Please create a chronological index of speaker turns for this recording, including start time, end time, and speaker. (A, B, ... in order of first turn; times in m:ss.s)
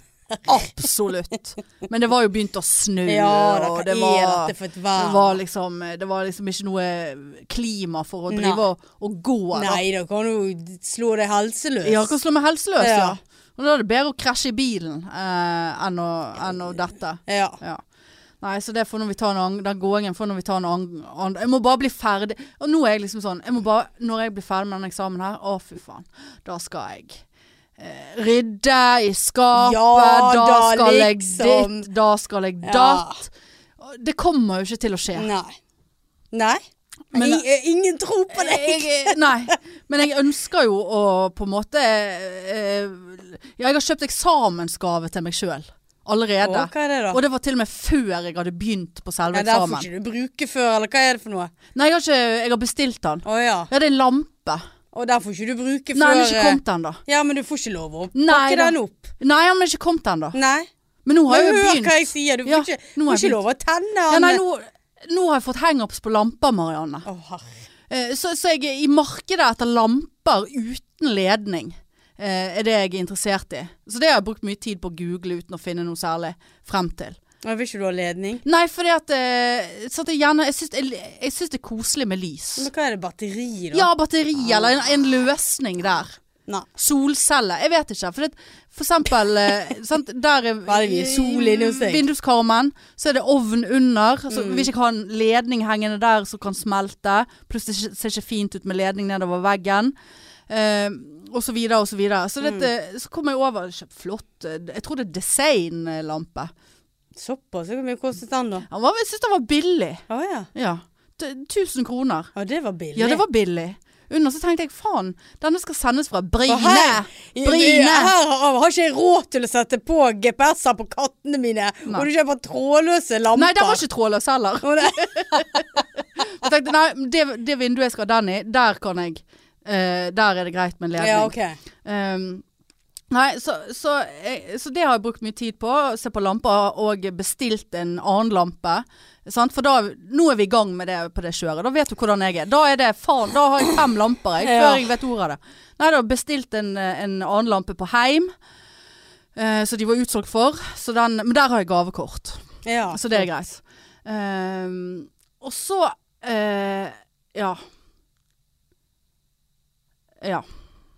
0:00.4-0:09.8 A
0:03.1-0:05.4 B
0:08.3-0:08.6 B
0:09.5-0:12.1 B
0:11.8-0:17.8 A
0:12.8-0:13.2 B
0:17.3-0:17.6 B
0:18.4-0:27.2 A
0:27.8-0:33.2 A
0:29.5-0:31.9 B
0:32.6-0:33.2 B
0:33.8-0:35.3 A
0:35.2-0:35.6 B
0:36.3-0:36.6 B
0:37.1-0:37.4 A
0:37.1-0:39.3 B
0:38.3-0:49.9 A
0:46.4-0:47.2 B
0:49.3-0:51.5 B
0:51.7-0:54.6 A
0:53.2-0:53.7 B
0:54.9-0:59.1 B
0:55.9-0:57.0 A
0:58.1-1:00.4 A
1:00.3-1:00.7 B
1:01.0-1:03.4 A
1:01.3-1:04.4 B
1:04.1-1:07.1 A
1:07.0-1:07.5 B
1:07.9-1:17.2 A
1:17.4-1:18.4 B
1:18.4-1:22.7 A
1:22.6-1:23.9 B
1:23.7-1:26.2 A
1:24.4-1:24.7 B
1:26.8-1:39.9 A
1:30.7-1:32.0 B
1:34.3-1:34.7 B
1:40.5-1:46.5 A
1:47.2-1:48.7 B
1:48.7-1:50.0 A
1:50.1-1:50.5 B
1:50.6-1:52.3 A
1:52.4-1:53.2 B
1:53.0-1:58.1 A
1:56.5-2:03.8 B
2:03.4-2:12.4 A
2:04.6-2:05.8 B
2:11.0-2:11.6 B
2:13.1-2:28.3 A
2:24.4-2:24.9 B
2:29.4-2:32.4 A
2:32.6-2:33.2 B
2:32.9-2:37.6 A